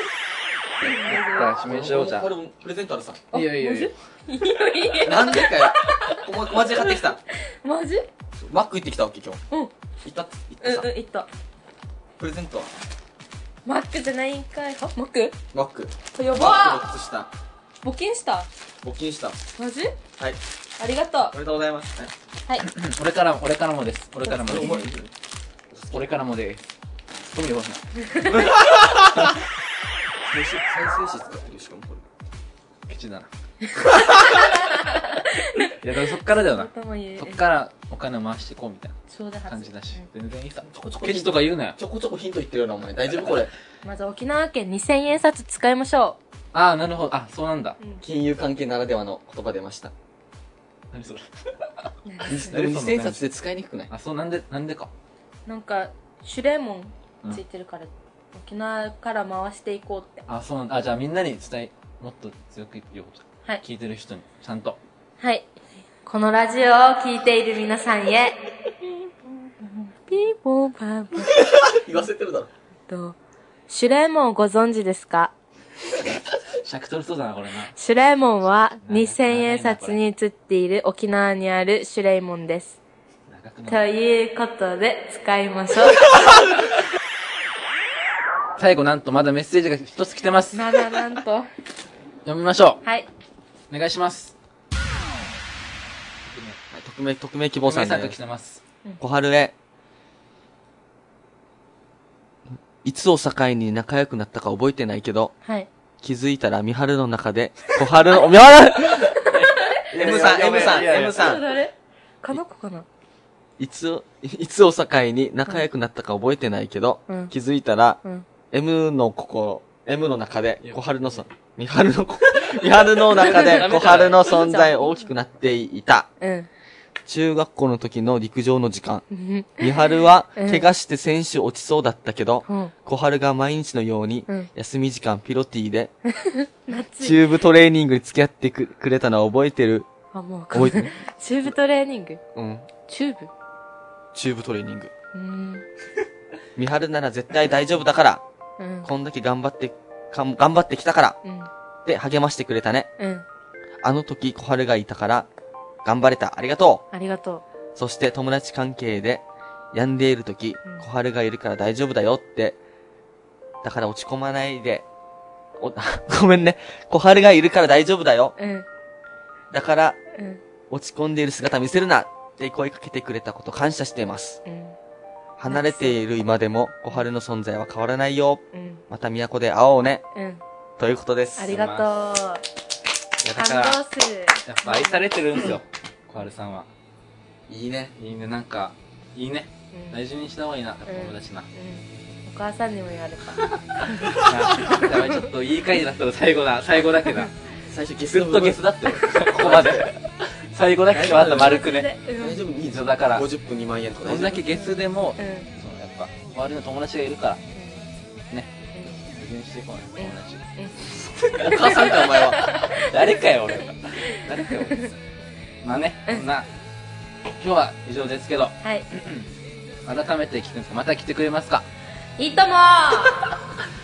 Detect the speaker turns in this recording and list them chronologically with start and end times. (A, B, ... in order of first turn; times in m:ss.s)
0:00.8-0:02.1 A
0:00.8-0:02.3 B
0:01.6-0:03.3 C
0:03.3-0:06.9 A
0:03.3-0:03.9 B
0:05.0-0:07.2 C
0:07.6-0:08.0 A
0:08.4-0:09.4 C
0:10.0-0:10.9 C
0:10.6-0:11.3 A
0:12.2-0:12.7 C
0:13.6-0:15.4 A
0:15.5-0:17.3 C
0:16.1-0:16.8 A
0:17.8-0:18.5 A
0:18.8-0:19.4 C
0:19.6-0:19.9 A
0:20.8-0:21.4 A
0:21.3-0:22.1 C
0:22.6-0:25.0 B
0:24.2-0:24.9 A
0:24.4-0:25.0 C
0:25.7-0:26.2 C
0:25.9-0:26.6 B
0:27.3-0:29.3 B
0:28.0-0:28.4 A
0:30.2-0:32.0 C
0:32.9-0:33.3 B
0:33.6-0:37.4 A
0:35.7-0:39.0 B
0:39.1-0:40.0 A
0:39.5-0:41.8 B
0:40.7-0:43.5 C
0:43.2-0:43.4 B
0:43.8-0:46.2 A
0:46.5-0:47.8 B
0:48.0-0:49.9 C
0:50.9-0:53.2 B
0:52.0-0:52.6 A
0:52.2-0:53.9 C
0:53.9-0:54.9 B
0:55.5-1:00.2 A
1:00.3-1:04.8 B
1:05.2-1:05.5 A
1:06.0-1:08.5 A
1:10.1-1:11.4 A
1:11.2-1:12.5 C
1:12.9-1:13.2 A
1:13.7-1:15.3 A
1:16.6-1:17.7 B
1:17.7-1:22.8 A
1:18.8-1:20.0 B
1:23.3-1:23.9 B
1:23.6-1:26.1 A
1:28.6-1:31.0 B
1:30.5-1:31.4 A
1:32.2-1:32.8 B
1:32.8-1:33.1 A
1:33.7-1:34.3 B
1:36.3-1:36.6 B
1:36.7-1:38.2 C
1:37.6-1:38.6 B
1:39.0-1:39.5 C
1:42.8-1:45.3 C
1:45.4-1:45.7 A
1:46.0-1:49.3 C
1:48.9-1:49.9 A
1:49.2-1:51.4 B
1:49.9-1:51.4 C
1:50.5-1:52.9 A
1:53.6-2:06.1 C
2:03.0-2:04.6 B
2:03.2-2:03.6 A
2:04.2-2:04.8 A
2:06.2-2:06.5 A
2:07.1-2:09.0 C
2:09.1-2:10.6 A
2:09.6-2:15.9 C
2:12.4-2:12.7 A
2:16.1-2:17.3 A
2:17.0-2:19.9 C
2:20.1-2:22.2 A
2:20.5-2:21.0 C
2:22.3-2:22.7 C
2:22.9-2:23.3 A
2:24.1-2:24.9 C
2:25.1-2:25.6 A
2:26.6-2:28.2 C
2:28.6-2:28.9 A
2:28.8-2:31.2 C
2:31.8-2:32.9 C
2:33.0-2:33.2 A
2:33.8-2:35.3 C
2:35.8-2:36.8 C
2:36.9-2:37.4 A
2:37.8-2:42.6 C
2:43.6-2:44.9 C
2:45.6-2:48.3 C
2:48.4-2:48.6 A
2:49.5-2:50.0 C
2:50.1-2:50.4 A
2:50.7-2:54.4 C
2:54.4-2:54.8 A
2:55.4-3:00.0 C
2:55.5-2:56.0 A
2:58.5-2:58.8 A
3:00.1-3:00.4 A
3:00.8-3:01.5 C
3:01.4-3:02.4 A
3:01.5-3:01.9 B
3:03.2-3:03.8 B
3:03.4-3:05.1 A
3:04.4-3:06.7 B
3:07.5-3:07.9 C
3:08.0-3:11.5 B
3:09.7-3:10.0 A
3:10.9-3:15.0 A
3:14.1-3:14.7 C
3:14.1-3:17.3 B
3:17.7-3:19.9 C
3:18.1-3:21.9 B
3:20.9-3:21.7 C
3:21.3-3:22.4 A
3:22.2-3:24.5 C
3:22.7-3:23.3 B
3:24.0-3:27.4 B
3:25.2-3:25.5 A
3:27.5-3:27.9 A
3:28.7-3:29.0 A
3:29.1-3:35.0 B
3:30.0-3:30.7 A
3:31.4-3:32.5 C
3:31.8-3:32.9 A
3:35.6-3:36.5 B
3:37.4-3:39.2 B
3:38.6-3:38.9 A
3:39.9-3:41.6 B
3:42.2-3:43.4 A